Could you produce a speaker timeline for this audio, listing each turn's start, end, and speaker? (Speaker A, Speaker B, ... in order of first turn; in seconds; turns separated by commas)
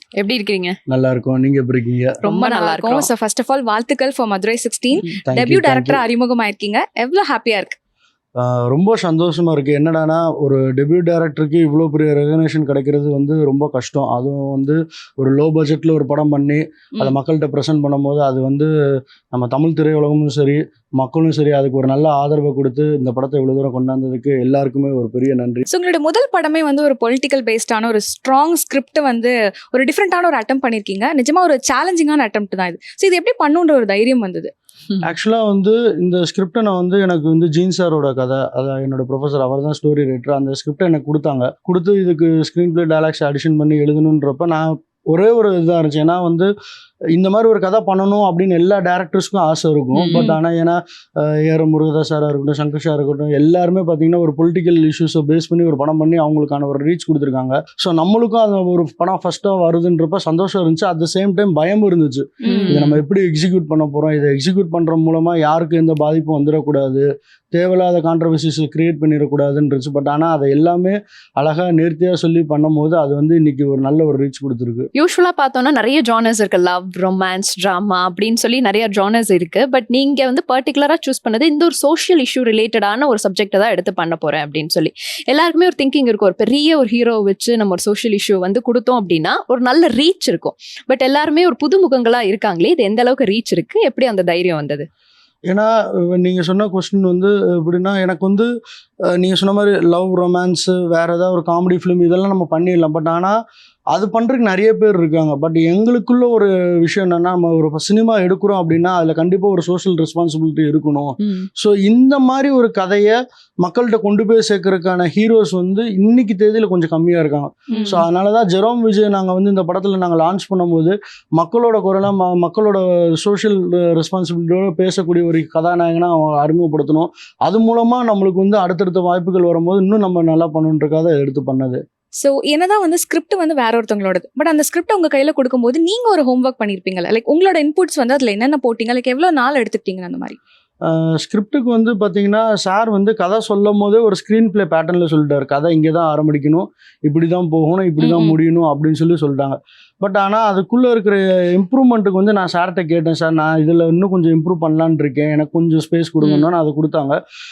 Speaker A: 0.2-0.8, Speaker B: 0.9-2.2, Speaker A: 2.2-3.1, Speaker C: 2.2-7.8, Speaker B: 5.3-6.0, Speaker B: 8.4-18.7, Speaker B: 19.3-25.7, Speaker C: 25.7-34.5, Speaker B: 35.0-46.5, Speaker B: 47.1-74.9, Speaker A: 50.0-50.4, Speaker C: 62.4-62.8, Speaker A: 62.5-63.0, Speaker A: 75.0-94.9, Speaker B: 95.5-98.5, Speaker B: 99.2-103.4, Speaker B: 103.9-131.8, Speaker A: 111.2-111.5, Speaker C: 117.7-118.0, Speaker A: 117.8-118.0, Speaker C: 132.2-140.4, Speaker B: 140.8-157.2, Speaker C: 148.0-148.3, Speaker A: 156.2-156.5